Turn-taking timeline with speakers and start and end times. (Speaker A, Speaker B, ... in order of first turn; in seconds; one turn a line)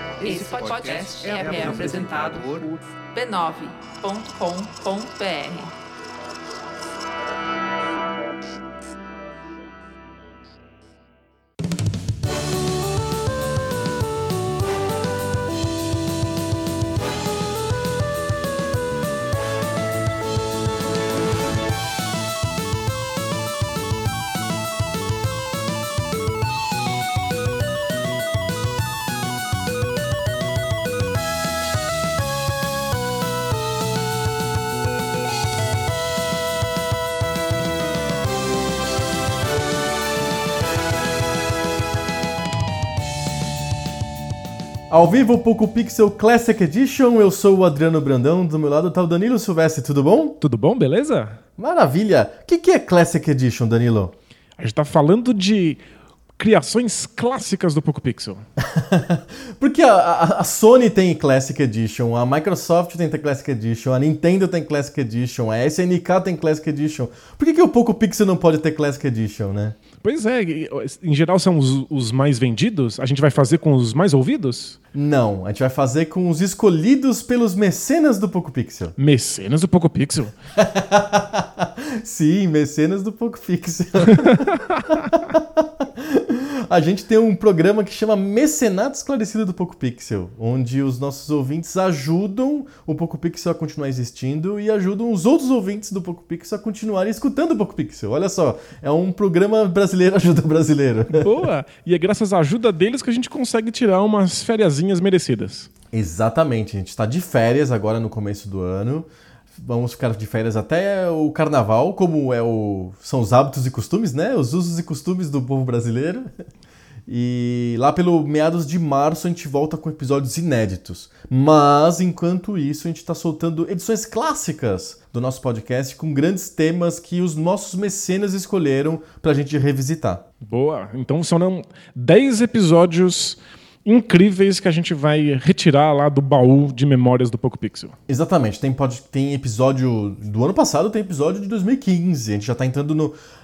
Speaker A: 0.2-5.7
Speaker B: 44.9-50.4
Speaker C: 50.4-51.4
Speaker B: 51.6-54.1
Speaker C: 54.6-55.8
Speaker C: 56.4-58.4
Speaker B: 58.6-69.8
Speaker C: 70.0-74.8
Speaker B: 74.9-78.9
Speaker C: 79.0-80.3
Speaker B: 80.6-101.3
Speaker C: 84.1-85.1
Speaker C: 101.1-105.7
Speaker B: 105.9-116.3
Speaker B: 117.1-130.2
Speaker C: 130.4-137.9
Speaker B: 138.1-143.1